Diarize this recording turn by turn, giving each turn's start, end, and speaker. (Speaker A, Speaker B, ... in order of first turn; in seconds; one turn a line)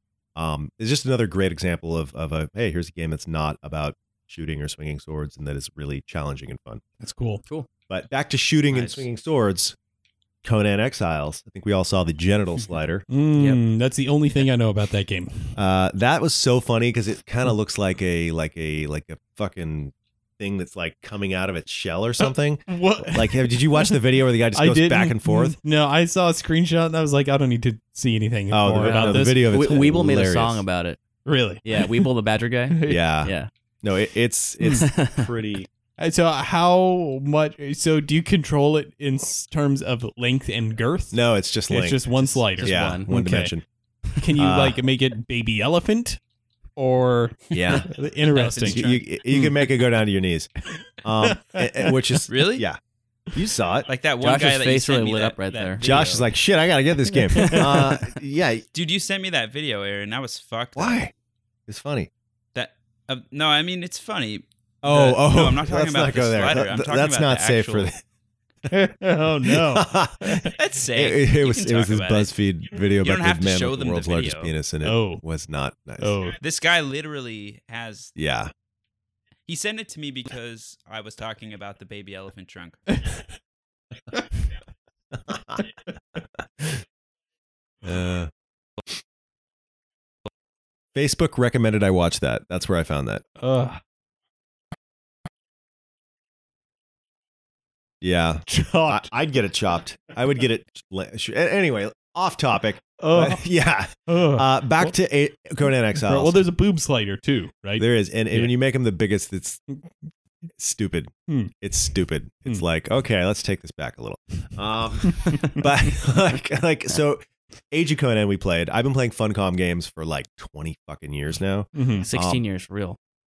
Speaker A: 0.3-6.8
Speaker B: 7.0-7.4
Speaker A: 7.9-9.8
Speaker C: 8.7-9.0
Speaker A: 10.4-13.1
Speaker B: 13.1-15.5
Speaker D: 13.3-13.6
Speaker A: 15.6-25.6
Speaker B: 22.2-24.0
Speaker B: 24.5-29.5
Speaker A: 28.5-30.6
Speaker D: 28.8-31.0
Speaker B: 31.2-32.1
Speaker D: 31.6-33.5
Speaker B: 32.7-33.0
Speaker A: 32.8-35.7
Speaker B: 34.6-34.9
Speaker D: 34.8-35.3
Speaker B: 36.0-43.5
Speaker A: 41.1-42.0
Speaker D: 42.1-43.1
Speaker A: 42.6-43.6
Speaker D: 44.1-44.5
Speaker B: 44.2-46.2
Speaker A: 44.4-44.8
Speaker B: 46.8-48.8
Speaker A: 47.5-47.9
Speaker D: 48.3-48.8
Speaker C: 48.6-49.0
Speaker A: 48.7-50.5
Speaker A: 51.0-52.8
Speaker B: 51.2-52.2
Speaker C: 52.3-52.6
Speaker A: 53.3-53.9
Speaker C: 53.9-56.3
Speaker D: 54.2-56.0
Speaker A: 55.8-58.6
Speaker B: 57.3-57.6
Speaker D: 57.3-58.0
Speaker C: 58.7-61.0
Speaker A: 60.8-61.1
Speaker A: 61.7-62.1
Speaker C: 62.5-67.9
Speaker A: 64.8-68.0
Speaker B: 68.7-70.5
Speaker A: 69.4-76.2
Speaker C: 70.5-72.3
Speaker C: 72.8-74.5
Speaker B: 74.8-75.2
Speaker B: 76.0-76.4
Speaker C: 76.4-78.1
Speaker A: 78.2-78.5
Speaker C: 79.5-82.8
Speaker A: 85.1-85.6
Speaker A: 86.4-86.8
Speaker A: 87.8-88.3
Speaker A: 90.9-93.2
Speaker B: 93.4-93.8
Speaker A: 98.0-106.4
Speaker B: 98.5-99.1
Speaker B: 103.0-103.4
Speaker B: 104.1-104.9
Speaker B: 106.0-108.5
Speaker A: 107.8-109.6
Speaker A: 110.6-122.4
Speaker B: 115.2-115.6
Speaker B: 121.7-122.1
Speaker D: 121.9-123.0